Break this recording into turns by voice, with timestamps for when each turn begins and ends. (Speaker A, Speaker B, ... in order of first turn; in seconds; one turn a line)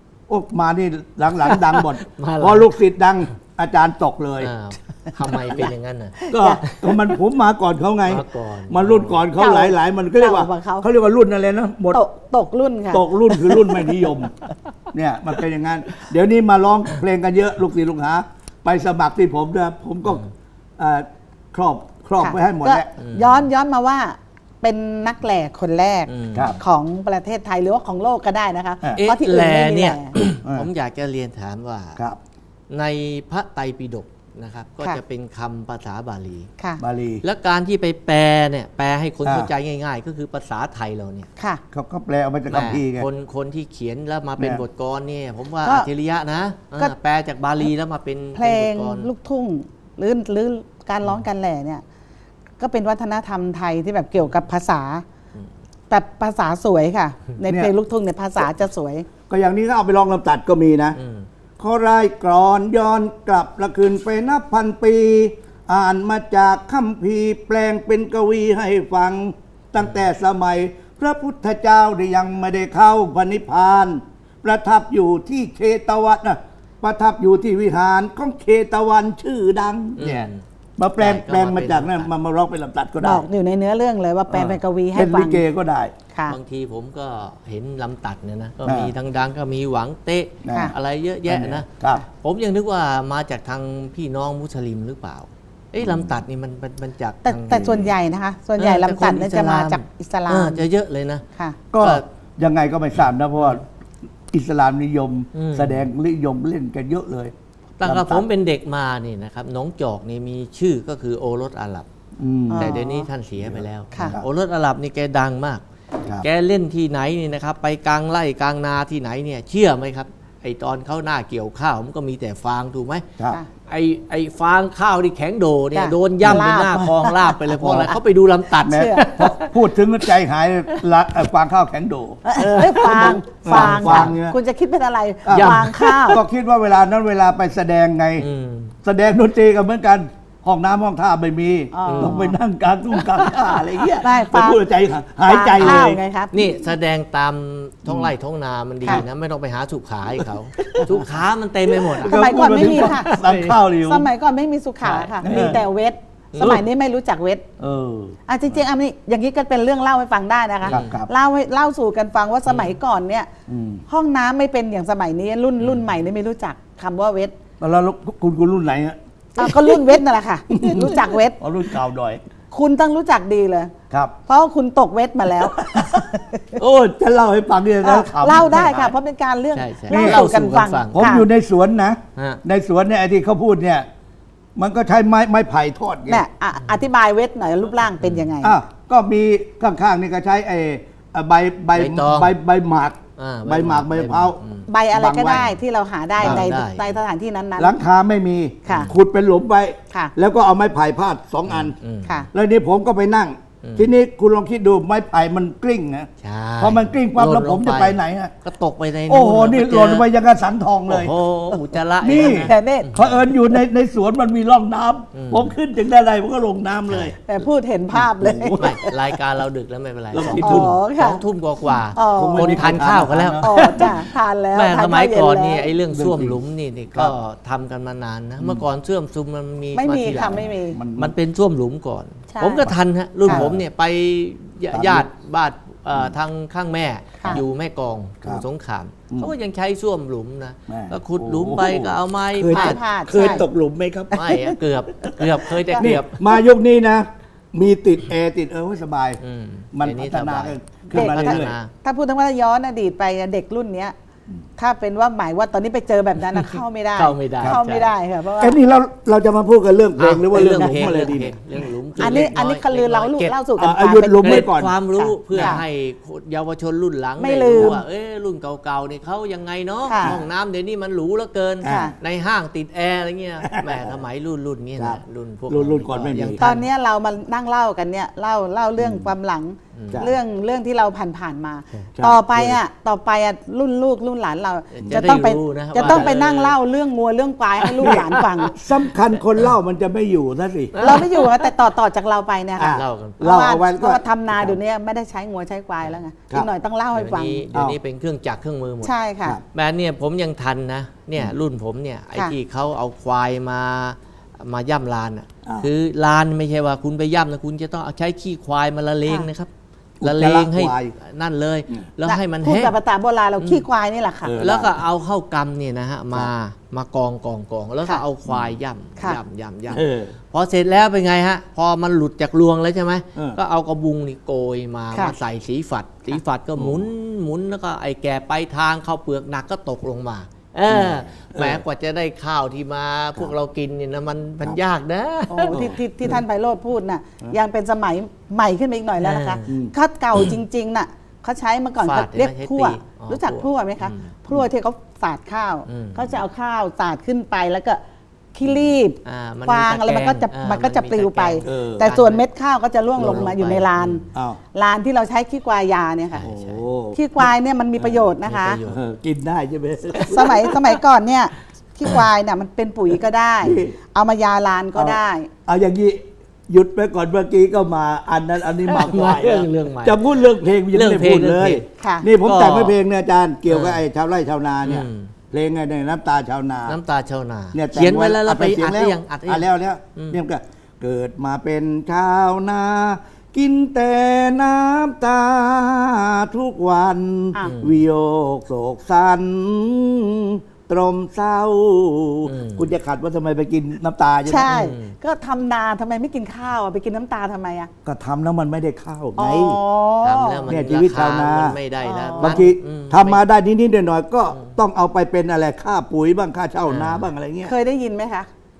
Speaker A: 0.3-4.5
Speaker B: 1.5-2.7
Speaker B: 4.4-6.8
Speaker A: 5.3-5.7
Speaker C: 6.2-6.6
Speaker A: 6.3-12.0
Speaker B: 8.1-9.2
Speaker C: 9.4-10.9
Speaker C: 11.9-13.9
Speaker A: 12.9-14.3
Speaker A: 14.9-20.2
Speaker B: 20.1-20.3
Speaker A: 20.8-22.9
Speaker C: 22.2-30.1
Speaker B: 23.0-23.4
Speaker B: 26.1-26.6
Speaker A: 26.3-26.6
Speaker B: 28.9-32.0
Speaker A: 30.4-30.7
Speaker B: 32.7-36.5
Speaker A: 36.8-37.2
Speaker B: 37.2-41.3
Speaker A: 39.2-39.5
Speaker A: 41.7-43.1
Speaker B: 42.5-49.1
Speaker C: 48.3-51.8
Speaker C: 52.6-55.0
Speaker C: 55.9-59.1
Speaker A: 57.5-57.7
Speaker A: 59.3-61.0
Speaker B: 61.0-61.3
Speaker A: 61.6-83.2
Speaker B: 80.0-80.4
Speaker B: 81.0-82.1
Speaker C: 83.0-85.4
Speaker A: 84.3-85.9
Speaker B: 86.3-97.9
Speaker A: 88.6-88.9
Speaker A: 90.4-90.7
Speaker A: 91.2-92.0
Speaker A: 95.8-96.1
Speaker C: 97.2-100.7
Speaker B: 98.6-101.2
Speaker A: 101.7-103.6
Speaker A: 104.3-108.3
Speaker B: 105.3-105.9
Speaker B: 107.8-111.9
Speaker A: 112.2-112.8
Speaker C: 112.5-113.1
Speaker B: 112.5-115.6
Speaker A: 113.4-114.2
Speaker C: 113.9-114.2
Speaker B: 116.2-123.1
Speaker B: 123.7-129.6
Speaker C: 125.7-127.3
Speaker A: 126.2-126.9
Speaker A: 127.5-128.0
Speaker A: 128.6-132.2
Speaker C: 128.6-129.1
Speaker C: 132.2-136.2
Speaker B: 132.4-134.1
Speaker A: 132.8-134.3
Speaker A: 135.2-138.3
Speaker B: 135.3-136.1
Speaker B: 138.2-138.8
Speaker A: 138.8-146.0
Speaker C: 141.7-142.4
Speaker B: 141.8-142.2
Speaker B: 143.1-144.0
Speaker C: 144.0-144.6
Speaker C: 145.2-146.6
Speaker B: 145.6-153.6
Speaker A: 147.8-148.1
Speaker A: 150.1-151.1
Speaker A: 151.7-154.1
Speaker C: 152.0-153.1
Speaker C: 153.8-157.4
Speaker B: 154.8-155.6
Speaker A: 155.2-155.6
Speaker B: 156.3-156.6
Speaker A: 157.6-158.2
Speaker C: 158.3-163.3
Speaker B: 160.6-161.0
Speaker A: 160.7-161.1
Speaker B: 162.5-162.8
Speaker A: 163.5-163.8
Speaker C: 163.9-167.3
Speaker A: 167.6-170.0
Speaker C: 169.3-171.4
Speaker A: 170.5-172.2
Speaker C: 172.5-173.7
Speaker C: 174.3-176.6
Speaker A: 175.4-178.7
Speaker C: 177.8-181.3
Speaker B: 178.3-178.9
Speaker B: 179.5-181.1
Speaker A: 179.9-180.3
Speaker A: 180.9-183.8
Speaker B: 182.2-182.4
Speaker A: 184.6-186.2
Speaker C: 186.1-188.6
Speaker B: 188.0-188.3
Speaker A: 188.4-194.4
Speaker B: 191.7-192.3
Speaker B: 193.2-194.7
Speaker C: 194.7-197.8
Speaker A: 194.9-195.4
Speaker A: 196.2-196.5
Speaker B: 196.2-196.9
Speaker A: 197.6-201.8
Speaker C: 198.7-198.9
Speaker B: 198.7-198.9
Speaker B: 201.5-202.2
Speaker A: 202.3-208.3
Speaker B: 203.6-203.9
Speaker B: 206.2-210.1
Speaker A: 209.1-217.2
Speaker B: 210.9-213.2
Speaker C: 212.1-212.9
Speaker B: 215.1-215.5
Speaker B: 216.9-217.1
Speaker C: 217.2-219.0
Speaker A: 217.9-218.7
Speaker B: 218.6-243.4
Speaker A: 220.1-220.7
Speaker C: 220.3-221.2
Speaker C: 221.9-222.8
Speaker A: 222.2-223.9
Speaker C: 223.4-225.7
Speaker A: 225.9-226.4
Speaker C: 229.7-230.8
Speaker A: 230.1-231.1
Speaker C: 232.3-232.7
Speaker A: 233.3-233.6
Speaker A: 234.7-235.1
Speaker A: 240.7-244.3
Speaker C: 242.5-243.4
Speaker B: 244.1-246.3
Speaker A: 245.0-249.2
Speaker B: 249.2-251.7
Speaker A: 249.7-251.6
Speaker C: 250.9-253.9
Speaker C: 254.6-258.6
Speaker B: 256.4-257.9
Speaker A: 258.4-261.7
Speaker B: 260.0-263.3
Speaker C: 262.0-265.6
Speaker A: 263.6-264.7
Speaker B: 264.2-276.7
Speaker A: 265.3-265.6
Speaker C: 267.2-267.8
Speaker A: 267.5-267.8
Speaker C: 269.9-270.1
Speaker A: 270.0-270.3
Speaker A: 271.6-271.9
Speaker C: 271.6-271.9
Speaker A: 273.4-274.0
Speaker A: 274.8-276.4
Speaker C: 276.4-288.5
Speaker A: 278.8-279.1
Speaker B: 279.7-280.0
Speaker A: 281.9-282.6
Speaker B: 284.7-286.6
Speaker A: 284.8-285.2
Speaker A: 285.8-286.1
Speaker B: 287.6-288.5
Speaker A: 288.5-291.0
Speaker B: 290.7-291.5
Speaker C: 290.8-297.4
Speaker A: 292.6-294.6
Speaker B: 292.6-293.2
Speaker B: 296.9-298.9
Speaker A: 297.5-297.8
Speaker C: 298.8-299.4
Speaker B: 299.5-309.5
Speaker A: 310.0-310.9
Speaker B: 310.0-312.7
Speaker C: 312.1-314.4
Speaker B: 313.4-313.6
Speaker A: 314.2-314.8
Speaker B: 314.4-335.7
Speaker A: 318.3-318.6
Speaker A: 319.7-320.1
Speaker A: 326.6-326.9
Speaker A: 330.7-331.6
Speaker C: 335.3-347.8
Speaker A: 335.5-336.2
Speaker B: 339.0-339.6
Speaker A: 339.4-339.7
Speaker B: 341.8-344.1
Speaker B: 345.6-346.1
Speaker C: 348.3-356.2
Speaker B: 349.0-352.2
Speaker A: 351.4-351.9
Speaker B: 352.9-354.0
Speaker A: 354.1-354.4
Speaker B: 356.1-356.6
Speaker A: 356.2-357.0
Speaker C: 356.9-358.6
Speaker A: 357.8-358.1
Speaker B: 358.1-358.8
Speaker A: 358.6-360.5
Speaker B: 359.9-360.7
Speaker C: 360.1-365.3
Speaker A: 363.4-363.7
Speaker A: 364.7-376.8
Speaker B: 368.6-370.0
Speaker B: 370.7-371.6
Speaker C: 371.8-372.1
Speaker B: 372.2-372.8
Speaker B: 373.5-373.8
Speaker B: 374.6-375.1
Speaker B: 376.7-380.2
Speaker A: 377.5-394.6
Speaker B: 387.4-387.8
Speaker B: 392.2-392.7
Speaker C: 394.2-397.7
Speaker B: 394.4-394.9
Speaker A: 397.8-399.6
Speaker C: 399.2-400.4
Speaker B: 400.0-403.2
Speaker A: 400.5-401.6
Speaker C: 401.8-402.4
Speaker A: 402.2-407.5
Speaker B: 406.7-407.1
Speaker C: 407.4-408.3